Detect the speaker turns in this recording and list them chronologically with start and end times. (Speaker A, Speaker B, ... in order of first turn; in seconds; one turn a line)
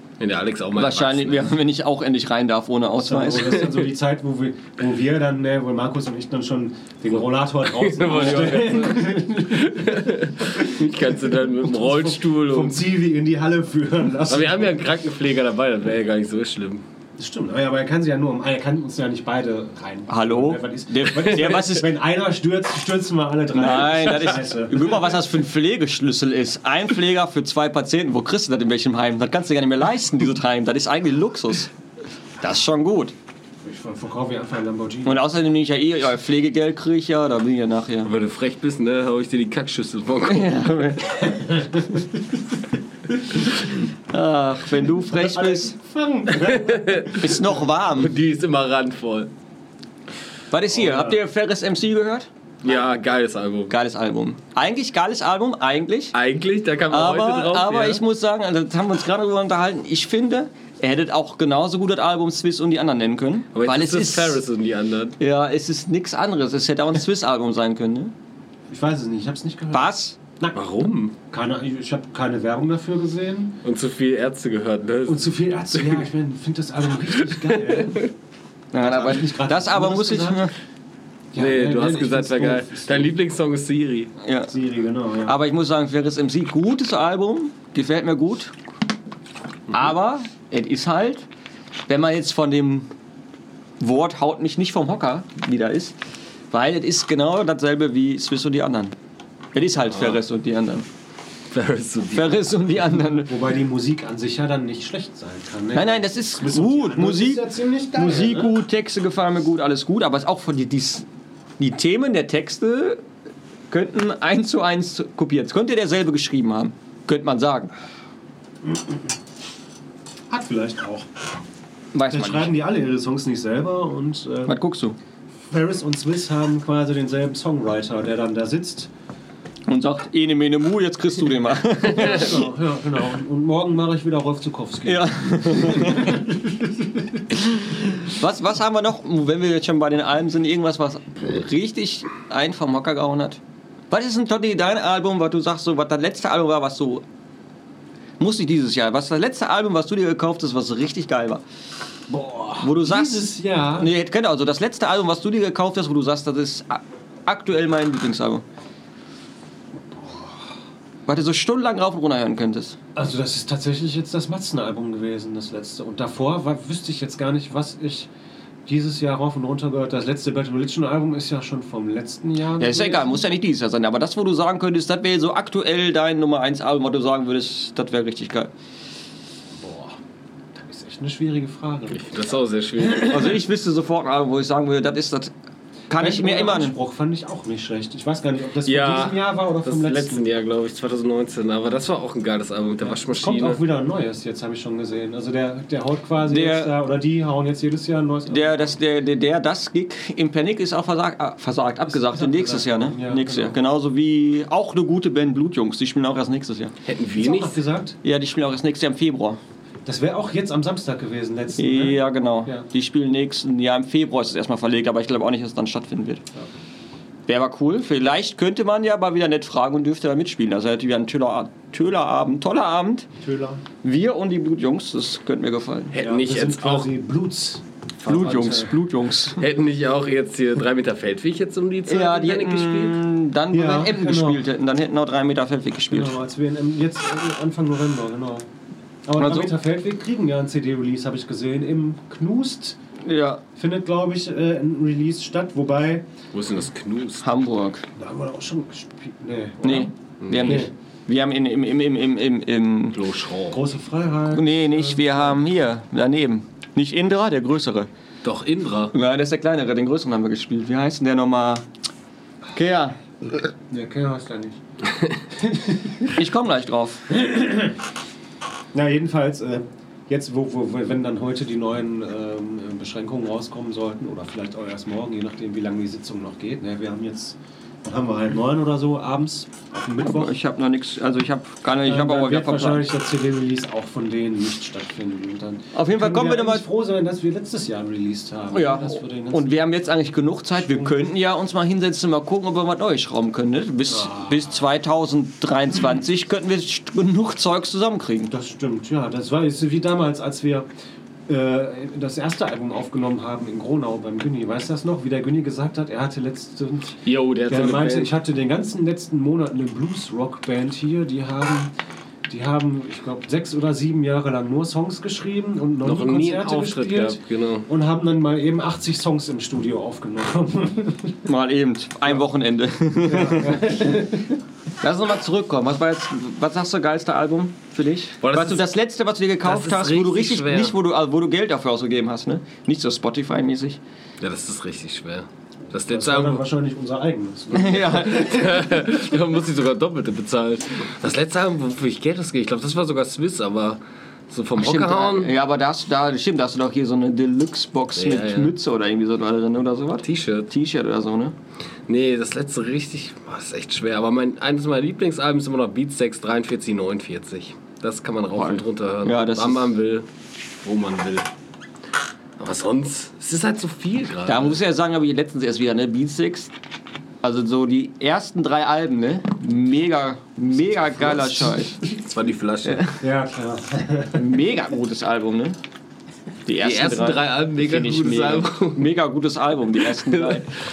Speaker A: 0.2-1.4
Speaker B: 0.8-3.7
Speaker C: 3.0-10.9
Speaker A: 7.6-12.8
Speaker C: 11.6-14.8
Speaker A: 14.3-16.8
Speaker C: 17.2-25.0
Speaker B: 20.1-21.9
Speaker B: 23.5-31.7
Speaker B: 32.4-33.1
Speaker C: 33.6-35.2
Speaker B: 35.0-38.1
Speaker A: 38.0-40.6
Speaker B: 40.2-41.5
Speaker C: 41.5-41.8
Speaker B: 44.0-45.8
Speaker C: 45.1-47.2
Speaker A: 46.3-47.4
Speaker B: 47.1-48.1
Speaker A: 47.9-49.3
Speaker B: 50.5-52.3
Speaker C: 50.8-51.2
Speaker A: 52.6-53.7
Speaker B: 53.7-56.1
Speaker A: 56.1-58.0
Speaker B: 56.9-64.4
Speaker A: 63.5-65.2
Speaker B: 65.2-68.1
Speaker C: 68.7-70.6
Speaker B: 69.7-70.2
Speaker A: 70.5-71.1
Speaker C: 71.2-73.6
Speaker A: 73.6-76.0
Speaker C: 75.0-78.1
Speaker A: 77.4-78.1
Speaker B: 78.7-80.5
Speaker C: 78.8-80.5
Speaker C: 81.3-83.1
Speaker A: 81.3-84.1
Speaker B: 84.2-84.5
Speaker C: 84.5-85.4
Speaker B: 85.2-88.5
Speaker B: 89.7-91.2
Speaker B: 91.9-92.9
Speaker B: 93.8-96.0
Speaker B: 96.5-98.9
Speaker B: 99.5-100.9
Speaker A: 101.5-102.4
Speaker B: 102.1-103.3
Speaker C: 103.3-108.5
Speaker B: 105.7-111.1
Speaker B: 111.6-113.0
Speaker B: 113.7-117.7
Speaker C: 118.6-119.0
Speaker C: 120.3-121.1
Speaker B: 121.9-122.5
Speaker C: 122.1-124.5
Speaker B: 124.5-125.0
Speaker C: 125.5-128.9
Speaker B: 129.7-132.5
Speaker C: 131.8-136.4
Speaker B: 134.8-136.3
Speaker B: 137.3-147.0
Speaker B: 148.2-151.4
Speaker C: 152.1-153.9
Speaker B: 152.6-158.4
Speaker C: 159.9-160.4
Speaker B: 161.1-162.8
Speaker C: 162.9-168.1
Speaker C: 168.7-173.2
Speaker B: 172.6-178.5
Speaker C: 179.5-180.0
Speaker C: 180.5-182.3
Speaker A: 181.9-183.4
Speaker B: 183.0-185.3
Speaker B: 185.9-186.7
Speaker C: 185.9-190.2
Speaker A: 188.6-193.6
Speaker C: 192.8-198.7
Speaker B: 196.2-196.7
Speaker B: 198.3-206.7
Speaker C: 201.9-203.6
Speaker A: 206.8-207.6
Speaker C: 207.2-208.0
Speaker B: 208.0-209.4
Speaker C: 209.8-212.7
Speaker B: 211.6-216.2
Speaker B: 217.3-223.1
Speaker C: 223.1-223.6
Speaker B: 223.8-225.9
Speaker A: 225.9-226.9
Speaker C: 226.0-228.7
Speaker B: 228.0-229.4
Speaker A: 228.0-228.6
Speaker A: 229.4-233.0
Speaker B: 231.8-236.2
Speaker C: 233.5-234.4
Speaker C: 235.9-238.5
Speaker C: 239.1-242.8
Speaker B: 239.2-239.5
Speaker B: 243.0-243.4
Speaker C: 243.5-246.1
Speaker A: 246.3-247.2
Speaker B: 247.2-247.8
Speaker C: 247.9-250.7
Speaker B: 249.6-253.0
Speaker A: 250.2-250.7
Speaker A: 252.9-253.6
Speaker C: 253.5-255.4
Speaker B: 254.3-257.9
Speaker A: 258.2-258.9
Speaker B: 258.9-261.6
Speaker B: 262.5-263.5
Speaker C: 263.7-264.6
Speaker C: 265.4-266.1
Speaker B: 266.1-267.0
Speaker C: 267.1-267.7
Speaker C: 268.7-280.4
Speaker B: 280.1-282.9
Speaker C: 281.8-289.6
Speaker B: 285.7-286.6
Speaker B: 288.5-298.3
Speaker C: 290.6-291.0
Speaker C: 293.9-294.6
Speaker C: 298.3-300.7
Speaker C: 301.3-311.7
Speaker A: 307.0-308.1
Speaker C: 312.3-321.2
Speaker A: 315.8-317.6
Speaker B: 321.2-323.8
Speaker C: 323.0-324.3
Speaker B: 324.8-333.8
Speaker A: 328.2-328.6
Speaker A: 329.4-330.8
Speaker A: 334.2-336.4
Speaker C: 335.8-338.8
Speaker B: 337.5-338.5
Speaker A: 338.2-345.3
Speaker B: 344.6-351.3
Speaker A: 347.9-348.5
Speaker A: 350.0-350.5
Speaker A: 351.9-360.1
Speaker B: 358.3-359.7
Speaker A: 360.6-361.3
Speaker A: 362.4-364.6
Speaker B: 364.2-366.5
Speaker B: 367.2-371.8
Speaker C: 371.0-371.5
Speaker A: 371.9-373.0
Speaker B: 372.6-372.9
Speaker C: 373.0-374.2
Speaker B: 374.1-375.6
Speaker B: 376.4-380.5
Speaker A: 376.6-378.9
Speaker A: 379.9-380.4